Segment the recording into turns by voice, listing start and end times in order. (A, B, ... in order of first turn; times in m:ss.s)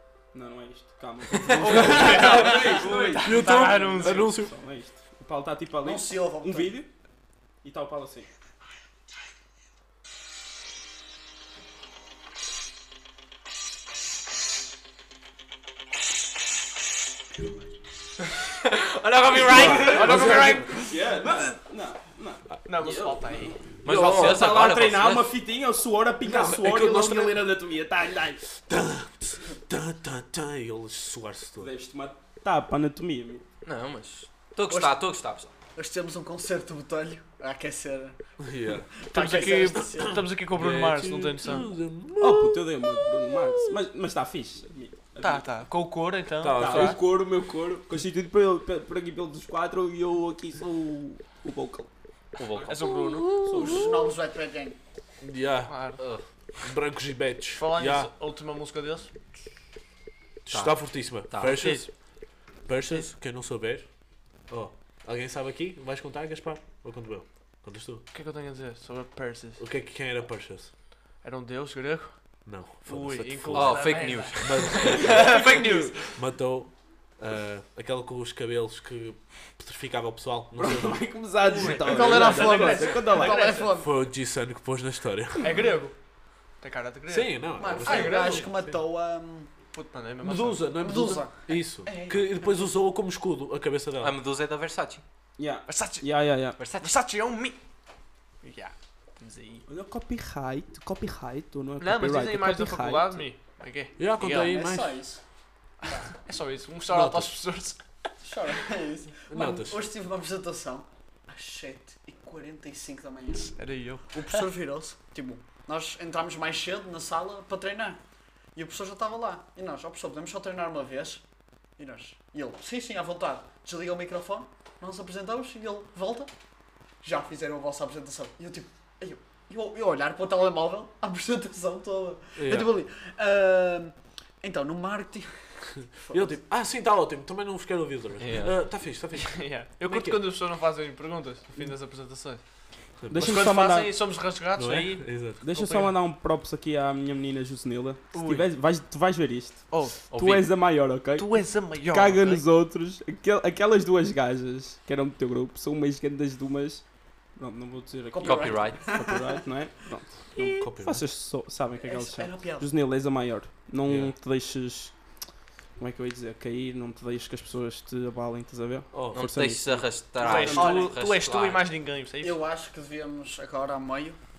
0:00.3-0:06.9 A
0:01.5-0:04.3 B
0:03.2-0:04.5 C
0:05.8-0:06.8 D
0:07.6-0:08.3 A
0:18.5-0:20.7 E
0:19.4-0:20.7 C
0:19.7-0:20.2 A
0:19.8-0:21.5 B
0:20.8-0:28.4 A
0:22.6-0:23.6 B
0:23.8-0:25.4 E
0:23.9-0:24.5 C
0:26.2-0:27.4 C
0:28.6-0:31.7 C
0:31.6-0:33.4 A
0:33.6-0:35.5 E
0:34.7-0:35.0 D
0:35.8-0:38.2 D
0:38.4-0:38.9 C
0:38.8-0:40.2 D
0:39.1-0:41.7 B
0:39.8-0:42.9 C
0:42.2-0:45.5 A
0:45.2-0:47.0 B
0:46.4-0:47.0 C
0:46.5-0:51.9 A
0:52.4-0:53.8 E
0:52.6-0:53.4 B
0:53.4-0:54.1 A
0:53.5-0:54.8 D
0:55.2-0:55.8 C
0:55.7-0:56.0 B
0:56.0-0:56.2 E
0:56.6-0:58.1 C
0:57.5-0:59.1 B
1:00.5-1:01.9 C
1:00.5-1:01.9 E
1:01.5-1:01.9 B
1:02.7-1:03.9 C
1:04.5-1:08.0 C
1:08.1-1:09.6 B
1:09.6-1:10.7 C
1:11.2-1:12.2 B
1:12.5-1:15.4 C
1:12.9-1:16.2 B
1:13.5-1:15.0 E
1:15.0-1:15.9 A
1:16.1-1:21.1 C
1:20.6-1:23.4 A
1:21.5-1:23.7 B
1:21.8-1:23.9 D
1:23.8-1:25.6 C
1:25.4-1:25.9 B
1:26.6-1:28.5 B
1:27.1-1:28.7 C
1:27.6-1:29.5 D
1:29.7-1:30.7 B
1:30.2-1:34.2 C
1:30.8-1:32.6 D
1:34.0-1:35.0 E
1:35.4-1:36.6 A
1:35.7-1:36.1 B
1:36.6-1:36.9 E
1:36.8-1:37.6 B
1:38.4-1:39.7 B
1:39.7-1:43.2 A
1:41.8-1:43.9 B
1:44.0-1:45.0 C
1:44.2-1:45.2 D
1:45.8-1:46.1 D
1:46.1-1:47.8 B
1:46.9-1:47.3 C
1:48.2-1:53.5 D
1:49.3-1:49.8 C
1:53.3-1:54.4 B
1:54.1-1:58.0 D
1:58.6-2:01.2 D
2:01.8-2:06.3 D
2:07.0-2:16.4 D
2:12.4-2:12.7 C
2:16.1-2:20.2 C
2:18.2-2:18.6 E
2:19.1-2:22.4 B
2:23.0-2:23.3 C
2:23.1-2:24.0 A
2:23.1-2:26.0 B
2:24.6-2:25.4 C
2:25.4-2:36.8 A
2:28.1-2:28.5 B
2:29.7-2:30.3 B
2:30.1-2:30.5 E
2:31.2-2:32.4 B
2:37.4-2:44.9 A
2:38.1-2:39.4 D
2:38.2-2:39.0 E
2:40.4-2:41.0 C
2:41.8-2:42.7 D
2:43.9-2:44.1 C
2:45.8-2:50.9 A
2:48.9-2:49.2 C
2:49.1-2:51.7 E
2:50.2-2:52.4 B
2:50.4-2:50.9 D
2:52.2-2:54.2 D